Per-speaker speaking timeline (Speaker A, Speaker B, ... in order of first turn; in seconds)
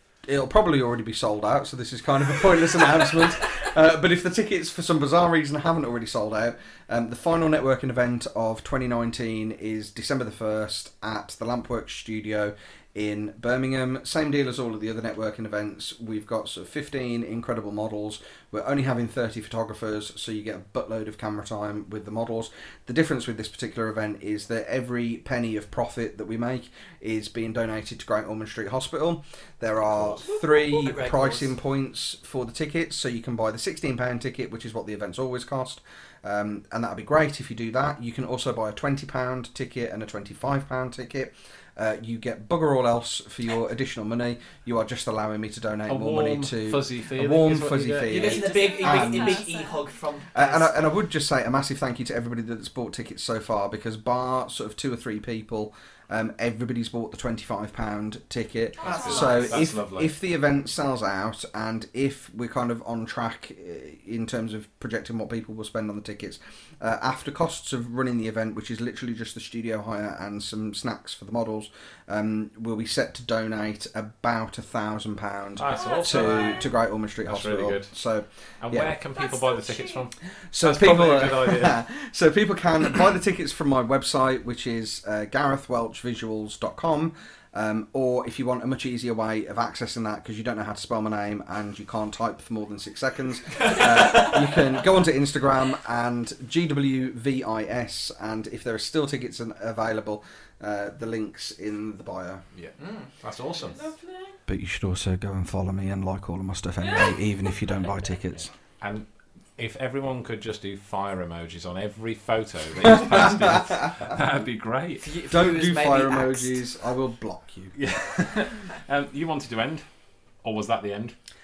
Speaker A: 0.2-49.4, 50.3-78.9, 80.5-102.4, 104.5-108.5, 112.8-114.1, 115.3-117.8
Speaker B: 29.8-30.2, 45.9-48.4, 58.9-60.1, 75.6-77.9, 78.6-81.8, 102.5-103.8, 108.4-109.0, 109.6-115.0, 117.7-119.8, 120.4-121.2
Speaker C: 30.3-31.5, 48.0-50.8, 58.8-59.6, 102.8-103.1, 115.0-116.6
Speaker D: 48.2-49.9, 58.8-59.5, 75.7-76.7, 79.1-80.0, 103.6-104.4, 106.8-107.9